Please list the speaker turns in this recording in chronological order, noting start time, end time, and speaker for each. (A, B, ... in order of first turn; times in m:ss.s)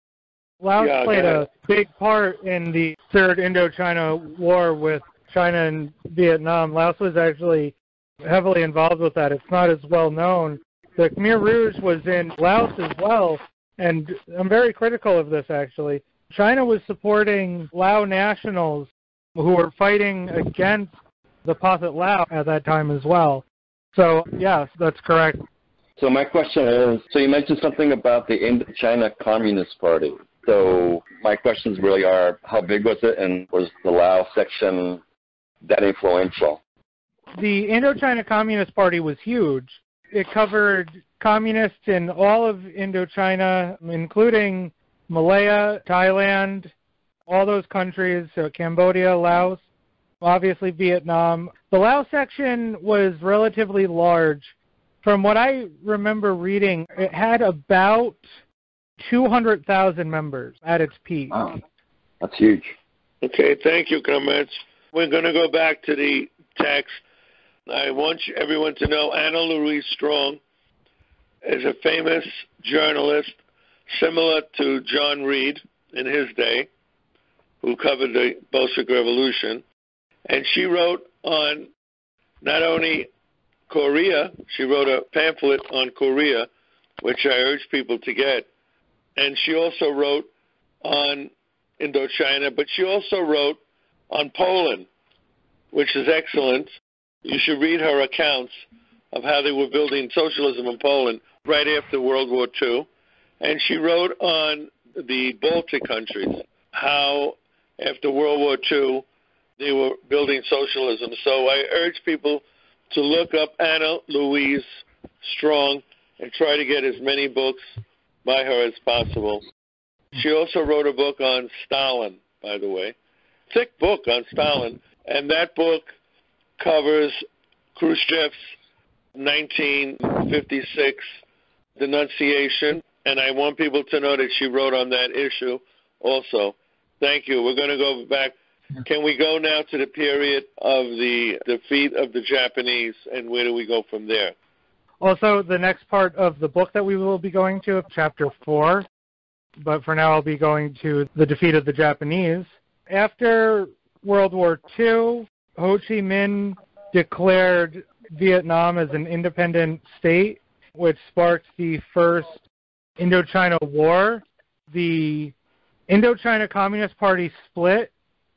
0:00.6-0:20.9 A
0:00.8-0:01.4 B
0:21.4-0:25.4 A
0:26.0-0:35.0 C
0:35.6-0:36.6 C
0:37.4-0:46.7 A
0:47.3-0:49.6 A
0:50.2-0:54.5 A
0:55.0-0:58.3 A
0:59.0-1:01.3 A
1:01.3-1:01.6 C
1:02.2-1:02.7 C
1:03.2-1:07.0 B
1:07.7-1:10.4 B
1:11.4-1:13.4 B
1:13.9-1:16.7 B
1:17.6-1:19.6 B
1:20.3-1:21.7 B
1:22.4-1:23.1 B
1:23.7-1:26.5 B
1:27.0-1:28.5 B
1:29.2-1:30.3 B
1:30.8-1:33.6 B
1:34.1-1:34.9 B
1:35.7-1:36.7 B
1:37.2-1:38.6 B
1:39.1-1:42.9 B
1:43.4-1:49.0 B
1:49.6-1:54.6 B
1:55.2-1:59.4 B
2:00.1-2:02.9 B
2:03.5-2:05.9 B
2:06.6-2:08.5 B
2:09.2-2:11.0 B
2:11.8-2:24.3 B
2:25.0-2:28.8 A
2:29.6-2:42.4 A
2:43.0-2:45.3 A
2:45.9-2:47.9 A